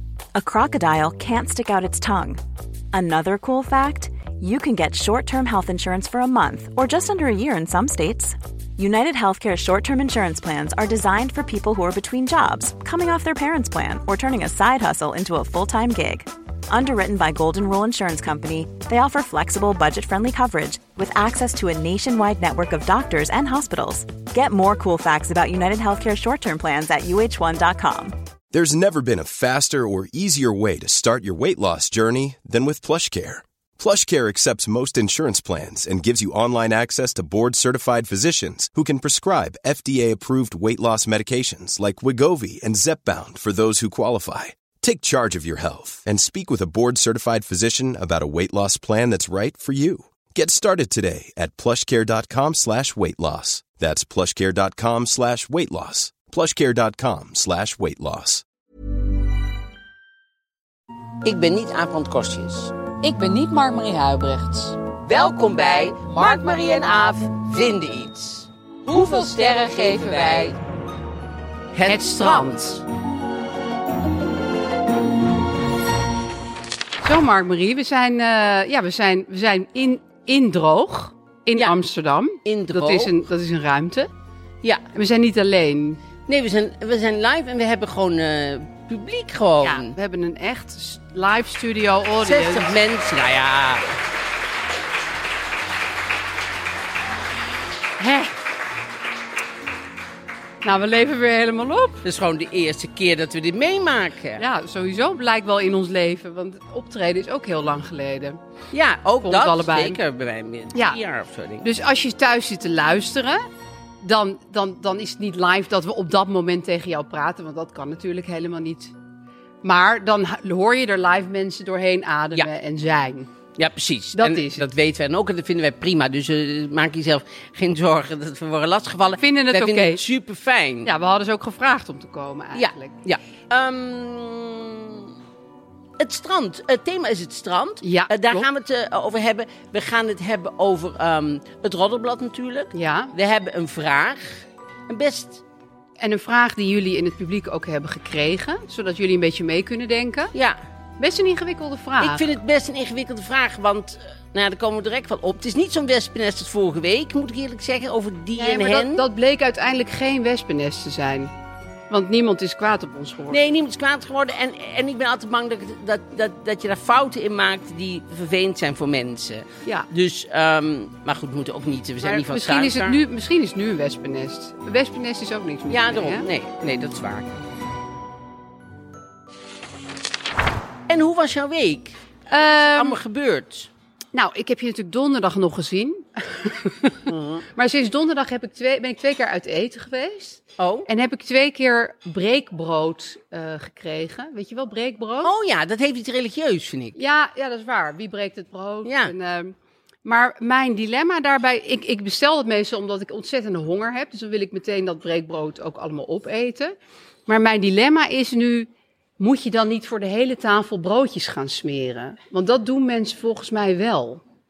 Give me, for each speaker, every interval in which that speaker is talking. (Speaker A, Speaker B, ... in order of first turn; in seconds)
Speaker A: 0.3-2.4, 2.9-28.2
Speaker B: 28.5-58.5
Speaker C: 61.2-62.8, 65.0-70.6, 71.7-72.6, 82.5-83.2, 86.3-89.9, 92.2-93.8, 102.0-104.4, 108.7-111.7, 123.6-130.9, 132.6-135.1, 136.0-145.4, 152.0-159.0, 163.3-173.0, 175.7-177.3, 180.9-183.7, 187.1-187.4, 190.6-190.9, 195.2-197.0, 198.8-199.1
Speaker D: 63.0-64.8, 68.9-70.5, 71.9-72.8, 77.0-84.1, 84.9-86.0, 89.6-92.8, 98.0-98.3, 100.6-102.0, 104.4-108.4, 109.2-110.0, 110.7-111.0, 111.6-113.5, 114.0-118.9, 119.6-123.3, 124.1-124.7, 129.2-130.0, 130.8-132.9, 137.8-138.5, 142.7-143.1, 146.0-150.3, 151.0-152.2, 158.4-161.3, 161.9-163.4, 172.0-176.3, 182.3-183.0, 184.1-187.0, 187.6-195.3, 197.0-206.8, 207.3-208.7, 209.2-214.2